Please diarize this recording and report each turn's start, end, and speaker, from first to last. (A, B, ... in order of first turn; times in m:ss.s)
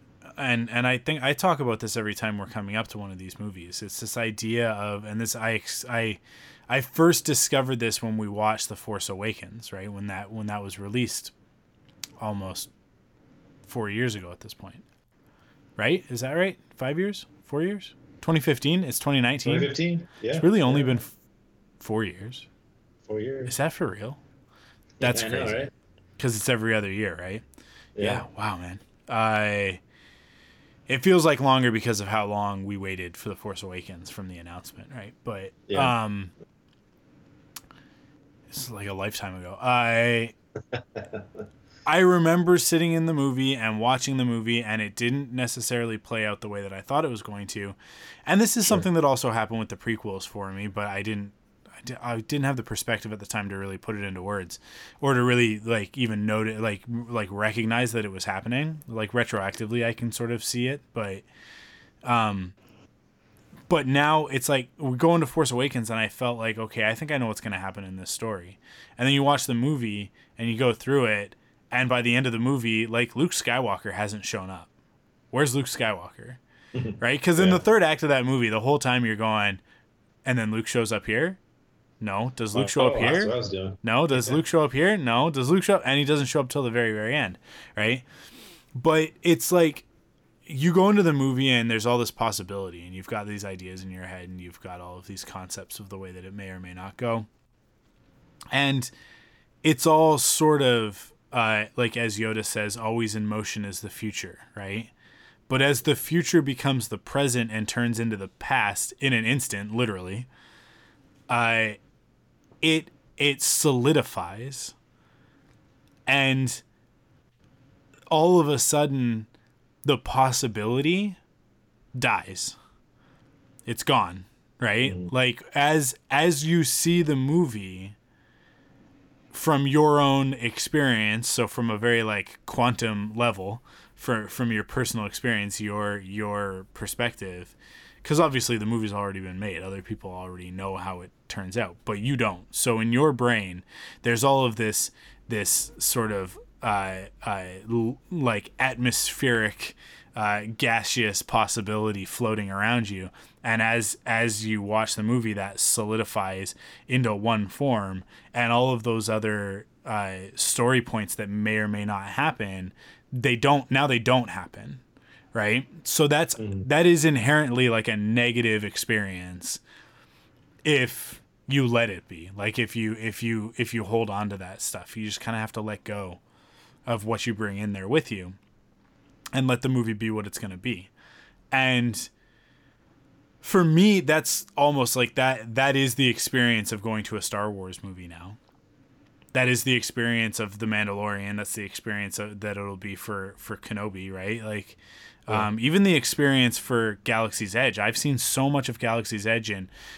0:00.4-0:11.3 A
0:12.2-0:12.7 A
0:13.7-0:14.8 A
0:15.8-0:19.7 A
0:19.4-0:20.9 B
0:20.3-0:21.1 A
0:21.8-0:22.5 A
0:23.1-0:23.5 B
0:23.4-0:24.2 A
0:25.0-0:25.7 B
0:25.0-0:27.4 A
0:28.0-0:28.2 B
0:28.0-0:29.8 A
0:30.9-0:36.3 A
0:38.5-0:40.3 A
0:40.7-0:41.2 B
0:41.8-1:01.2 A
1:02.0-1:02.5 A
1:03.7-1:14.7 A
1:15.3-1:16.4 A
1:16.7-1:17.6 B
1:17.0-1:19.6 A
1:20.2-1:21.4 A
1:22.0-1:28.0 A
1:22.5-1:24.4 B
1:28.7-1:29.8 A
1:30.5-1:37.3 A
1:38.5-1:38.9 A
1:39.6-1:44.9 A
1:45.5-1:50.3 A
1:51.3-1:51.8 A
1:52.6-1:54.7 A
1:56.1-1:56.6 A
1:58.1-1:59.3 A
1:59.8-2:01.2 A
2:01.9-2:02.6 A
2:03.6-2:08.0 A
2:04.8-2:05.1 B
2:09.3-2:44.8 A
2:45.3-2:49.6 A
2:46.4-2:46.6 B
2:50.6-2:56.2 A
2:56.9-2:58.4 A
2:59.3-3:00.9 A
3:01.5-3:02.1 A
3:03.4-3:08.4 A
3:09.3-3:19.7 A